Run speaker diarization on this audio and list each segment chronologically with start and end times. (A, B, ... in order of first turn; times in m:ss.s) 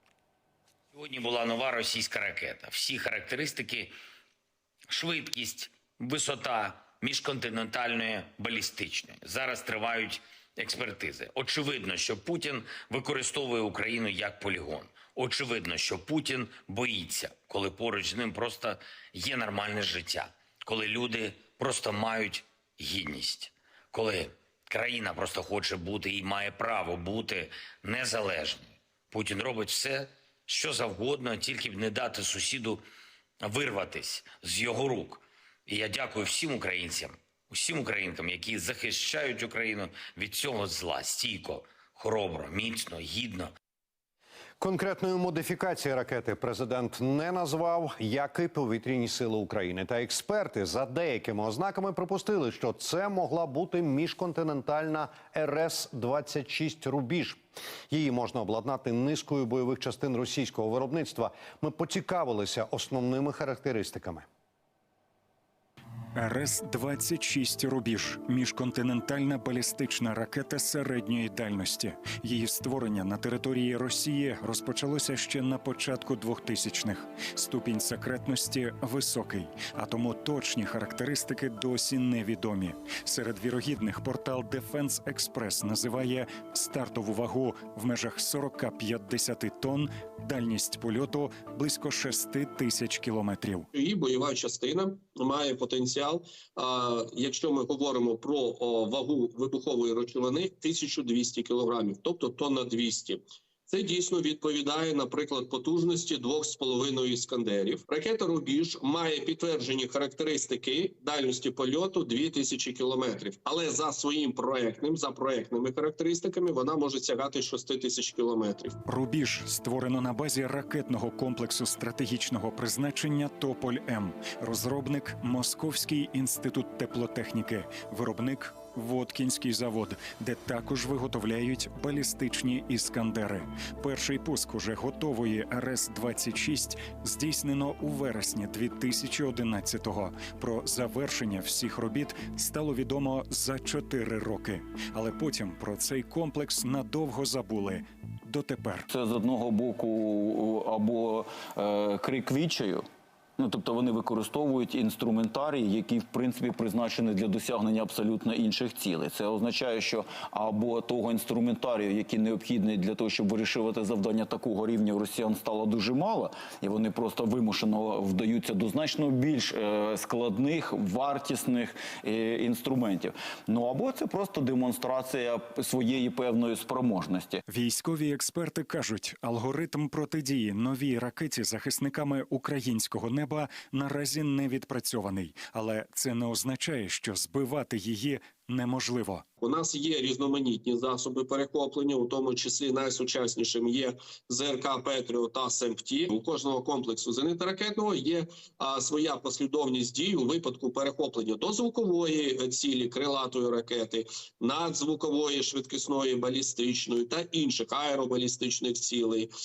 0:00.9-0:03.9 A
0:04.9-0:32.8 A
0:33.4-0:43.5 A
0:44.6-0:57.4 B
0:57.9-1:04.2 B
1:06.2-1:33.7 C
1:33.7-1:58.8 D
1:58.8-2:28.8 C
2:28.9-2:32.8 E
2:33.4-2:57.4 E
2:57.5-3:09.2 C
3:09.4-3:29.3 D